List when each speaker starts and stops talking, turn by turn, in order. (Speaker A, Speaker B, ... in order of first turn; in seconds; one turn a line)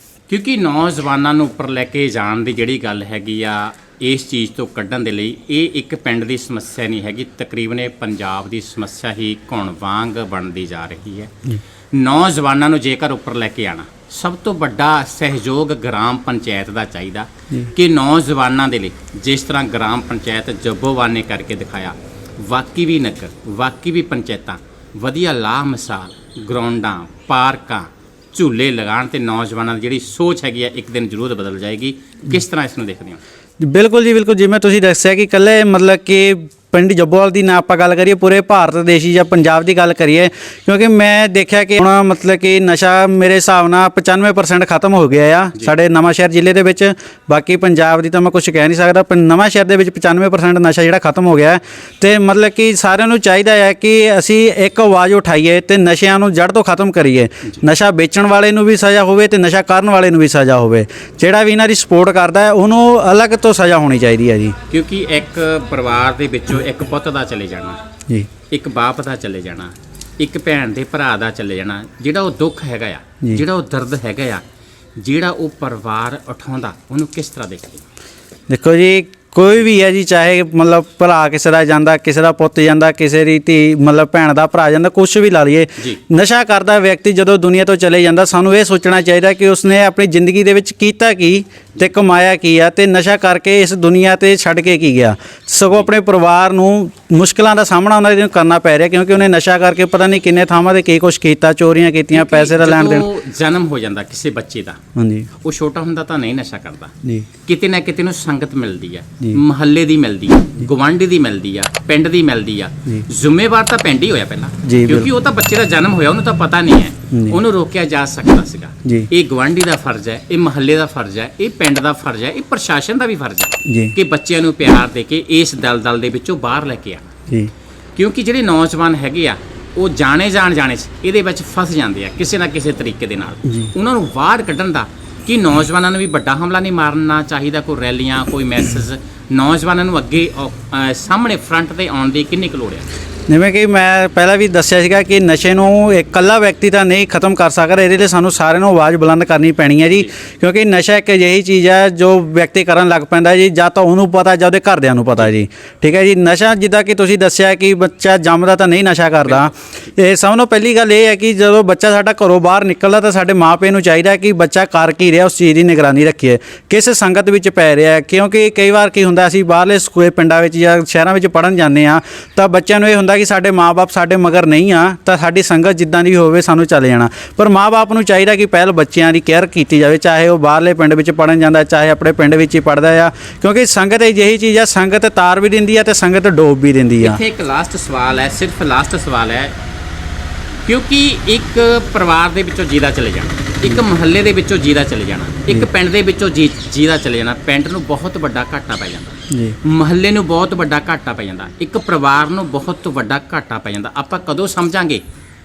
Speaker A: 0.3-33.2
Speaker B: 33.6-64.5
Speaker A: 64.7-67.8
Speaker A: 68.5-74.4
Speaker A: 75.0-77.8
Speaker B: 78.5-103.1
Speaker A: 102.1-104.8
Speaker B: 105.0-105.3
Speaker A: 105.4-106.9
Speaker A: 107.5-127.1
Speaker B: 114.6-115.1
Speaker B: 117.1-117.4
Speaker B: 123.7-123.9
Speaker A: 128.0-142.9
Speaker B: 143.3-187.2
Speaker A: 187.0-189.5
Speaker A: 190.7-205.0
Speaker B: 199.3-199.6